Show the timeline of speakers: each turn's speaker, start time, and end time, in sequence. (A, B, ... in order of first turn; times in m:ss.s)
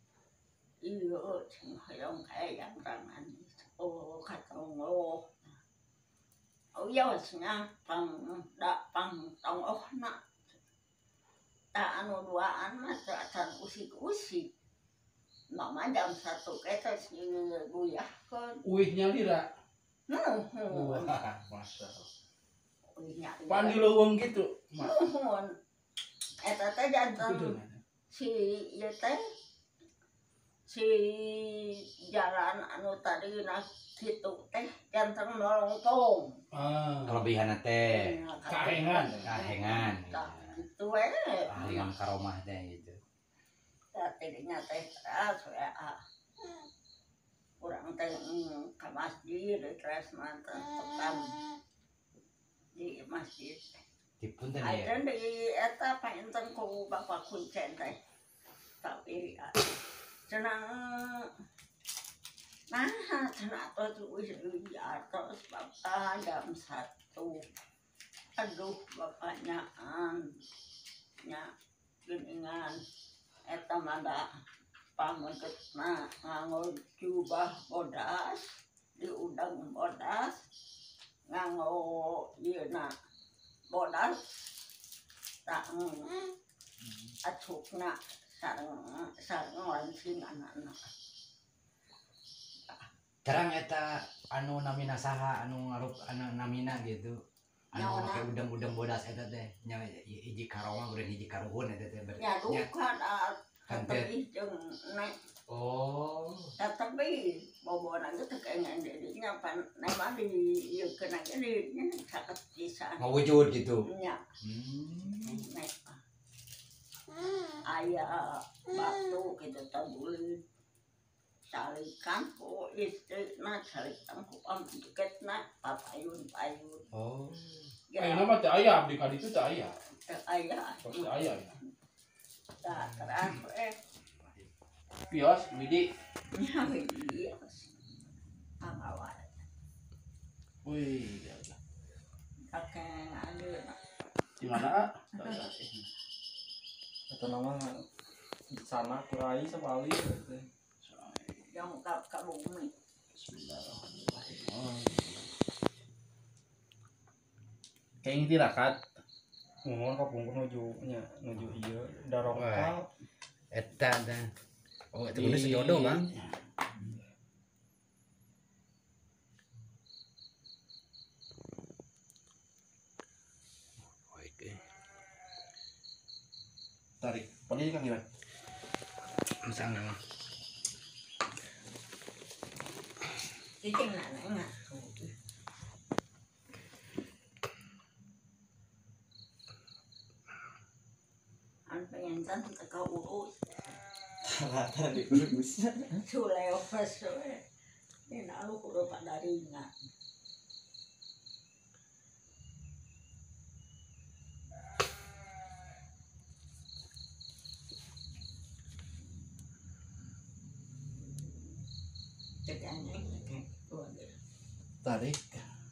0:00.8-0:05.4 A
0:06.7-0:10.2 A
0:11.7-0:14.5 A
0:15.5-0:18.6 A
0:18.6-0:19.5 B
0:20.1-0:21.1 A
0:20.7-0:22.1 B
0:22.9-0:23.9 A
0:23.5-0:25.0 B
0:24.8-0:25.6 A
0:26.4-0:27.6 A
0:27.2-0:27.8 B
0:28.1-0:29.2 A
0:30.7-0:36.4 A
0:36.5-0:37.3 B
0:37.0-0:38.1 C
0:37.9-0:41.9 A
0:38.4-0:39.4 B
0:39.3-0:40.5 C
0:41.5-0:43.0 C
0:43.9-0:46.0 A
0:47.6-0:51.4 A
0:52.8-0:53.6 A
0:54.2-0:55.0 C
0:54.6-0:58.0 A
0:58.8-0:59.8 A
1:00.3-1:01.3 A
1:02.7-1:07.4 A
1:08.4-1:10.4 A
1:11.2-1:11.5 A
1:12.0-1:12.8 A
1:13.5-1:14.3 A
1:15.0-1:20.4 A
1:21.3-1:22.9 A
1:23.7-1:24.5 A
1:25.5-1:26.4 A
1:27.2-1:30.9 A
1:33.2-1:37.1 C
1:37.7-1:42.7 C
1:37.7-1:38.3 A
1:42.2-1:45.2 A
1:43.7-1:44.1 C
1:45.5-1:46.5 C
1:46.6-1:53.2 A
1:53.0-1:53.9 C
1:53.8-1:54.2 A
1:54.4-1:55.4 C
1:55.2-1:56.0 A
1:57.7-2:00.4 A
2:01.5-2:06.9 A
2:06.9-2:07.7 C
2:07.9-2:08.3 A
2:08.0-2:09.8 B
2:09.9-2:11.1 A
2:10.8-2:11.6 B
2:12.6-2:13.8 A
2:15.1-2:15.9 B
2:16.3-2:17.7 A
2:18.6-2:19.3 A
2:20.6-2:21.6 B
2:22.5-2:23.8 A
2:24.4-2:25.7 B
2:27.1-2:27.9 D
2:28.5-2:30.5 D
2:30.8-2:31.5 B
2:31.5-2:32.7 A
2:33.1-2:35.3 B
2:38.0-2:38.9 B
2:39.6-2:42.9 D
2:42.3-2:42.8 C
2:43.5-2:44.3 C
2:44.9-2:46.1 C
2:45.1-2:46.4 B
2:57.0-2:58.0 B
2:59.5-2:59.8 B
2:59.6-3:00.0 C
3:03.6-3:05.2 A
3:11.7-3:13.8 A
3:14.2-3:15.8 D
3:16.0-3:17.5 A
3:18.1-3:19.7 A
3:32.4-3:34.2 A
3:34.8-3:35.4 B